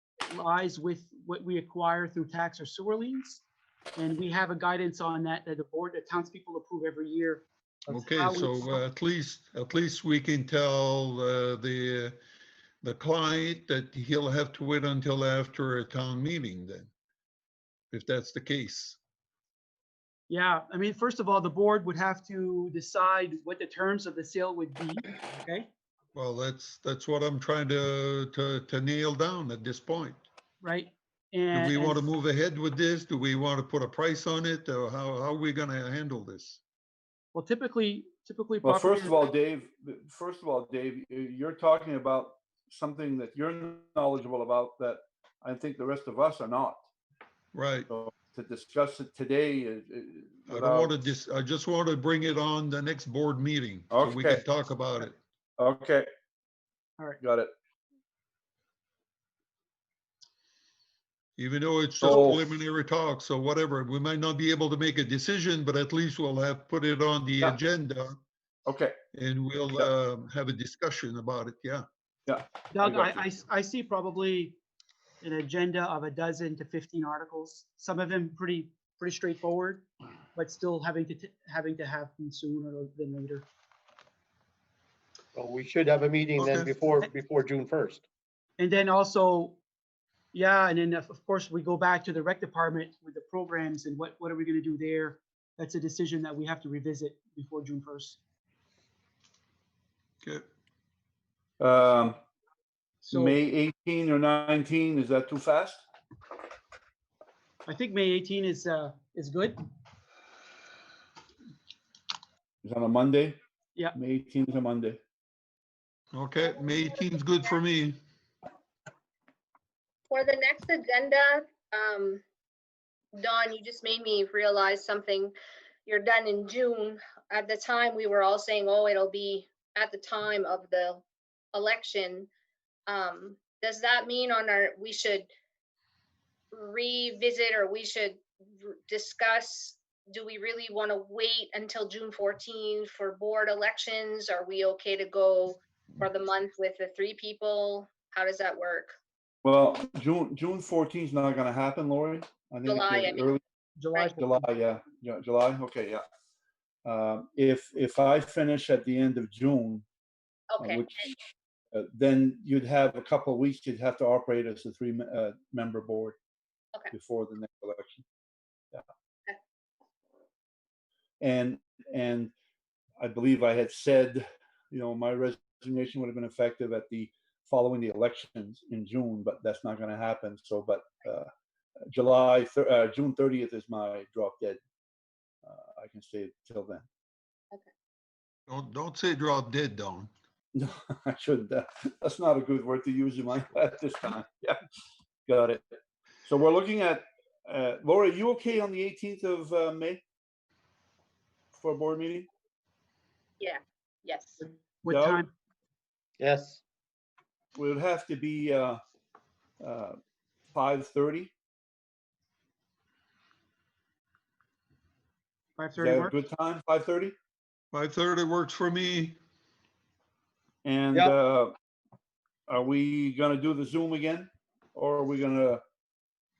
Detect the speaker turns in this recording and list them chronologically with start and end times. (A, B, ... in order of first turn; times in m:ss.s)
0:00.3-0:03.4 A
0:04.0-0:08.8 A
0:07.9-0:12.2 B
0:12.8-0:16.9 B
0:17.9-0:19.0 B
0:20.3-0:25.7 A
0:26.1-0:30.2 B
0:30.6-0:32.1 A
0:31.5-0:36.6 B
0:37.3-0:39.3 A
0:38.6-0:46.8 C
0:47.5-0:47.9 B
0:47.9-0:50.9 C
0:50.5-0:55.2 B
0:53.9-0:54.4 C
0:55.6-0:56.1 C
0:57.2-0:57.5 C
1:01.4-1:08.2 B
1:02.0-1:02.4 C
1:08.6-1:09.0 C
1:09.1-1:11.8 B
1:12.3-1:13.2 C
1:12.7-1:14.6 A
1:15.2-1:23.5 A
1:25.3-1:28.0 D
1:26.4-1:26.8 B
1:28.6-1:29.6 A
1:30.3-1:38.2 A
1:41.6-1:42.2 C
1:43.0-1:43.4 A
1:43.1-1:45.8 C
1:47.6-1:49.6 A
1:52.6-1:53.4 C
1:53.9-1:55.0 C
1:56.1-1:58.0 B
1:56.6-1:56.9 E
2:00.1-2:02.2 E
2:03.1-2:05.3 E
2:05.8-2:12.3 E
2:12.9-2:15.3 E
2:16.5-2:28.9 E
2:29.4-2:33.4 C
2:32.6-2:33.4 E
2:33.8-2:34.4 A
2:34.2-2:36.0 C
2:36.8-2:39.8 C
2:40.5-2:41.1 E
2:40.6-2:46.2 C
2:46.9-2:48.0 C
2:51.2-2:52.3 C
2:53.0-3:01.3 C
3:01.9-3:04.6 C
3:05.4-3:06.8 C
3:08.5-3:10.1 B
3:10.5-3:14.6 C
3:15.3-3:20.0 C
3:21.5-3:22.3 C
3:23.4-3:24.4 E
3:24.4-3:25.3 A
3:24.9-3:25.2 C
3:26.2-3:26.6 D
3:27.6-3:28.8 C
3:29.6-3:30.0 C
3:30.5-3:31.3 C
3:35.6-3:36.1 A
3:35.8-3:37.1 C
3:37.7-3:39.2 B
3:40.6-3:41.5 C
3:42.5-3:45.6 C